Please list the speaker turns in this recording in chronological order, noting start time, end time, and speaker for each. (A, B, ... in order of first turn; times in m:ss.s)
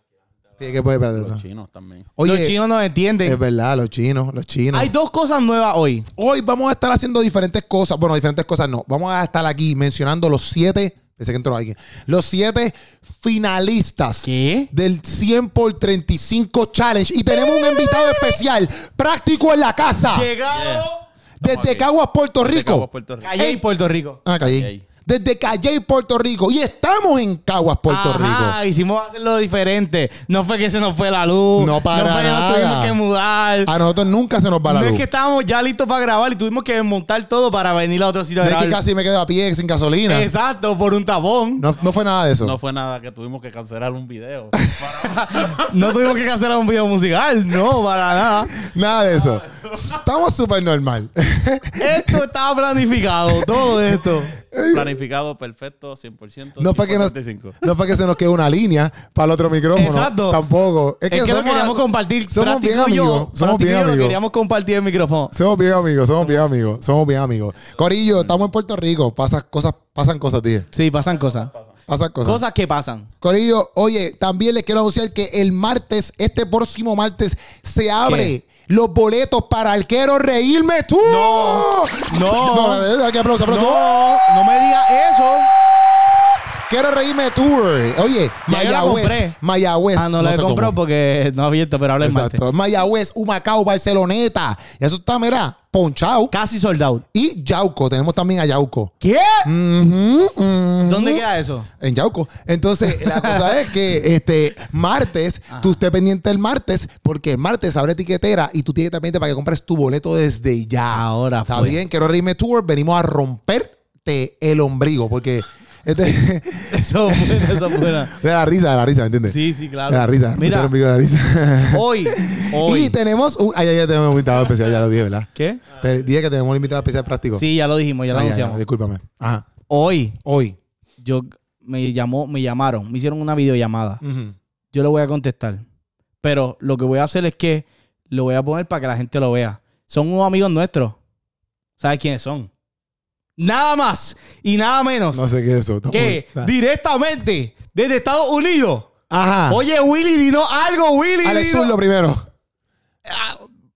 0:00.5-0:02.1 A
0:00.6-0:01.4 B
0:02.2-0:02.6 B
0:02.2-0:03.4 C
0:03.2-0:04.9 B
0:04.7-0:06.0 C
0:06.2-0:20.3 B
0:14.2-0:14.7 C
0:17.3-0:18.4 C
0:20.0-0:21.0 C
0:20.5-0:20.9 A
0:21.4-0:21.9 A
0:21.4-0:22.8 B
0:22.4-0:23.5 A
0:23.2-0:24.2 C
0:24.2-0:28.6 B
0:24.4-0:24.8 A
0:27.9-0:33.7 C
0:31.6-0:33.0 B
0:33.6-0:35.0 B
0:34.7-0:38.8 C
0:38.4-0:40.3 B
0:40.1-0:41.6 C
0:41.6-0:42.6 B
0:42.4-0:45.7 A
0:45.0-0:48.6 C
0:48.6-0:52.2 B
0:51.8-0:54.3 C
0:53.3-0:54.0 B
0:54.5-0:54.9 B
0:54.6-0:57.6 A
0:56.6-1:04.2 B
0:59.7-1:00.4 C
1:01.1-1:05.3 C
1:05.3-1:10.7 B
1:07.7-1:08.4 A
1:10.7-1:11.5 C
1:11.1-1:11.7 A
1:11.9-1:12.4 B
1:12.2-1:13.1 C
1:13.2-1:24.1 B
1:18.0-1:18.3 C
1:21.0-1:22.9 C
1:23.4-1:25.5 C
1:26.7-1:30.8 B
1:28.5-1:29.4 C
1:30.0-1:32.4 C
1:32.0-1:36.3 B
1:36.3-1:37.0 C
1:37.1-1:38.9 B
1:39.0-1:39.5 C
1:39.4-1:41.2 B
1:40.8-1:41.7 C
1:41.8-2:07.5 B
1:42.8-1:43.7 C
1:45.5-1:45.8 C
1:50.9-1:51.8 C
1:56.7-1:58.1 C
1:59.3-2:00.7 C
2:01.7-2:03.0 C
2:05.3-2:05.6 C
2:07.3-2:08.6 C
2:08.1-2:09.5 B
2:09.7-2:10.2 C
2:10.2-2:10.6 B
2:11.0-2:14.0 C
2:14.0-2:14.3 B
2:14.7-2:15.6 C
2:16.2-2:21.0 C
2:21.8-2:22.5 C
2:23.4-2:25.3 C
2:25.1-2:26.5 B
2:25.9-2:28.9 C
2:29.1-2:29.6 B
2:29.5-2:31.7 C
2:31.2-2:32.2 B